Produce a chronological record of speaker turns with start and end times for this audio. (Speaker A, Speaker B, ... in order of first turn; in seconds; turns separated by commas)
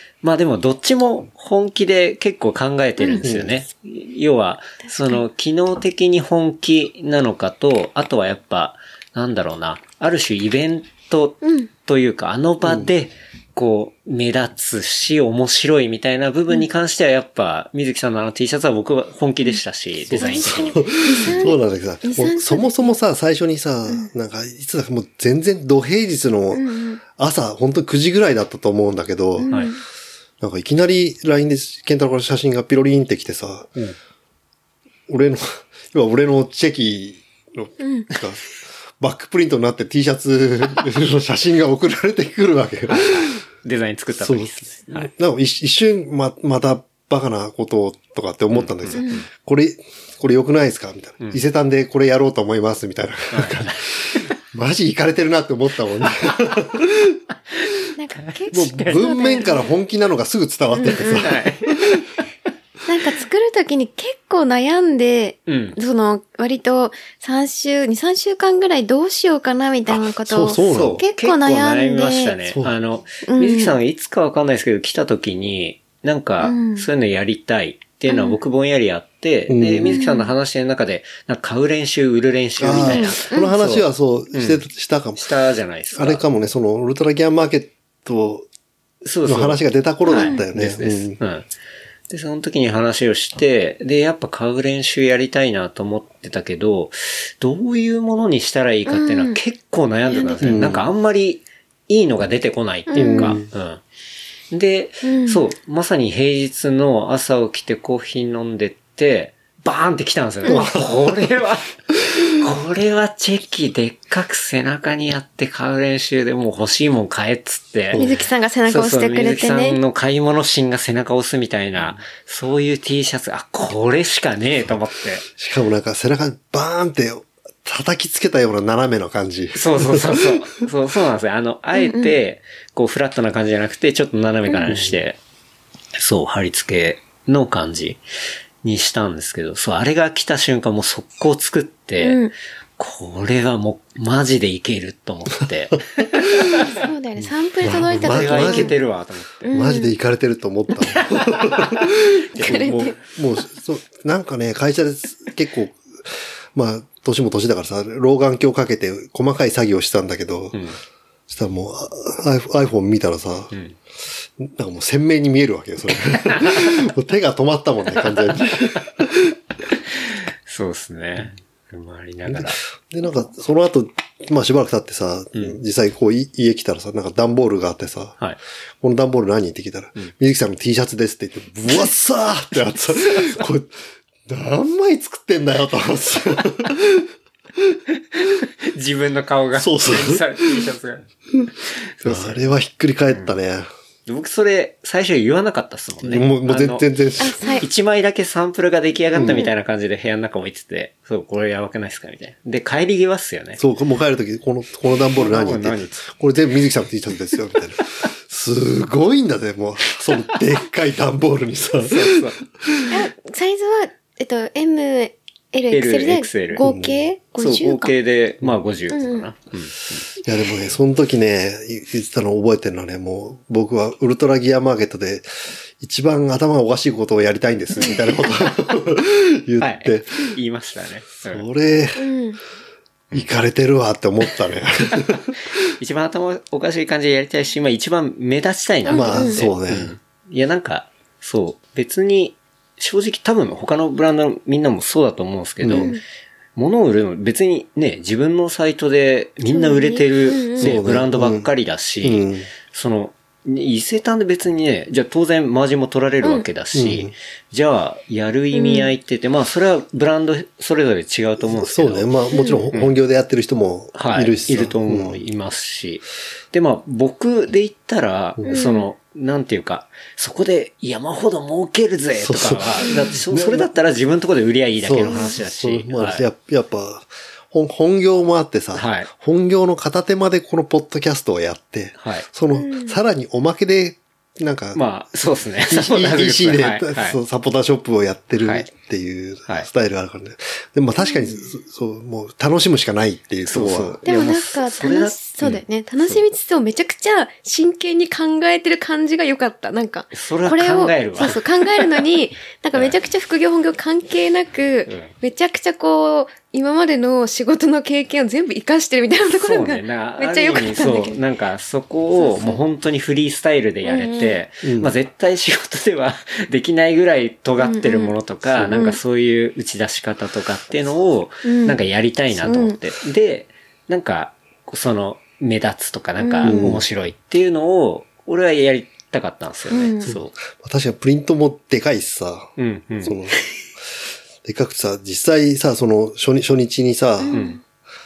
Speaker A: 0.2-21.4, Speaker B: 3.2-3.6, Speaker C: 11.4-11.7, Speaker B: 20.1-29.5, Speaker C: 20.1-22.9, Speaker C: 26.5-27.0, Speaker C: 29.4-29.8, Speaker A: 29.5-29.7, Speaker B: 30.4-33.8, Speaker B: 35.1-38.5, Speaker C: 37.8-38.1, Speaker B: 39.0-43.4, Speaker A: 42.9-45.1, Speaker B: 44.2-57.2, Speaker A: 48.5-49.3, Speaker A: 53.3-54.2, Speaker A: 57.5-59.4, Speaker C: 58.0-59.7, Speaker B: 58.5-61.5, Speaker C: 60.8-61.3, Speaker A: 61.1-62.0, Speaker C: 62.9-72.3, Speaker A: 65.5-65.8, Speaker B: 69.9-71.0, Speaker A: 70.7-84.6, Speaker B: 72.5-72.7, Speaker C: 73.2-73.7, Speaker C: 76.4-76.8, Speaker C: 78.1-78.4, Speaker B: 79.5-80.0, Speaker C: 79.8-80.3, Speaker B: 82.6-85.3, Speaker C: 82.8-83.5, Speaker A: 85.2-86.2, Speaker B: 85.9-88.5, Speaker A: 89.0-91.5, Speaker B: 89.2-91.2, Speaker C: 90.1-90.4, Speaker A: 92.1-103.8, Speaker C: 98.8-99.4, Speaker C: 100.1-100.6, Speaker B: 100.4-100.9, Speaker C: 102.9-103.4, Speaker B: 103.0-103.5, Speaker A: 104.5-111.7, Speaker C: 105.0-105.4, Speaker B: 110.5-111.3, Speaker A: 112.2-118.0, Speaker B: 117.9-118.2, Speaker C: 117.9-119.8, Speaker A: 118.7-125.2, Speaker B: 125.4-130.4, Speaker A: 129.5-135.2, Speaker C: 131.7-132.1, Speaker B: 134.7-135.0, Speaker A: 135.9-138.0, Speaker A: 138.6-142.2, Speaker C: 142.0-142.3, Speaker A: 142.8-146.7, Speaker C: 146.7-148.8, Speaker B: 147.2-148.7, Speaker A: 147.9-149.5, Speaker C: 149.4-149.9, Speaker B: 149.5-160.6, Speaker C: 152.3-153.0, Speaker A: 160.5-160.8, Speaker B: 161.3-163.5, Speaker B: 164.4-169.3, Speaker A: 168.1-168.5, Speaker A: 170.0-172.6, Speaker B: 172.3-178.2, Speaker B: 178.8-187.8, Speaker A: 183.0-183.4, Speaker A: 188.1-191.0, Speaker B: 189.6-190.6, Speaker A: 191.6-192.4, Speaker B: 192.0-193.7, Speaker A: 194.1-196.9, Speaker B: 196.0-197.6, Speaker C: 197.2-197.6, Speaker A: 197.6-203.6, Speaker B: 199.1-199.4, Speaker C: 199.2-199.5, Speaker B: 203.6-212.9, Speaker A: 205.2-206.0, Speaker A: 211.8-212.4, Speaker C: 212.9-217.9, Speaker A: 215.7-216.6, Speaker B: 216.6-217.0, Speaker A: 217.4-220.1, Speaker C: 218.9-219.2, Speaker B: 220.2-225.3, Speaker B: 225.8-230.3, Speaker A: 229.6-231.4, Speaker B: 231.2-232.1, Speaker C: 232.0-232.4, Speaker B: 233.1-235.4, Speaker A: 235.8-246.0, Speaker C: 238.9-239.4, Speaker B: 238.9-239.9, Speaker B: 245.6-245.9, Speaker C: 245.7-246.0, Speaker A: 246.6-262.1, Speaker C: 249.5-250.7, Speaker B: 250.6-251.5, Speaker B: 252.0-252.5, Speaker B: 256.7-257.1, Speaker C: 258.5-258.9, Speaker B: 261.4-265.2, Speaker C: 262.3-262.7, Speaker A: 263.9-276.2, Speaker C: 268.4-268.9, Speaker B: 272.2-273.7, Speaker C: 272.8-273.1, Speaker B: 274.8-284.8, Speaker C: 275.1-275.4, Speaker A: 278.7-279.1, Speaker A: 282.0-282.2, Speaker C: 282.5-283.0, Speaker A: 284.7-287.2, Speaker B: 285.7-294.0, Speaker A: 288.4-288.7, Speaker C: 291.1-291.4, Speaker A: 293.5-296.2, Speaker C: 294.0-311.2, Speaker A: 300.1-301.4, Speaker A: 304.9-305.1, Speaker A: 309.4-330.3, Speaker C: 312.2-312.6, Speaker C: 313.8-314.4, Speaker B: 314.6-314.9, Speaker C: 317.6-319.0, Speaker C: 321.4-321.8, Speaker C: 322.4-322.8, Speaker C: 326.2-326.7, Speaker B: 326.4-326.8, Speaker C: 329.7-330.1, Speaker B: 330.0-333.4, Speaker A: 332.6-333.1, Speaker B: 334.4-337.4, Speaker C: 337.2-337.6, Speaker A: 337.3-337.6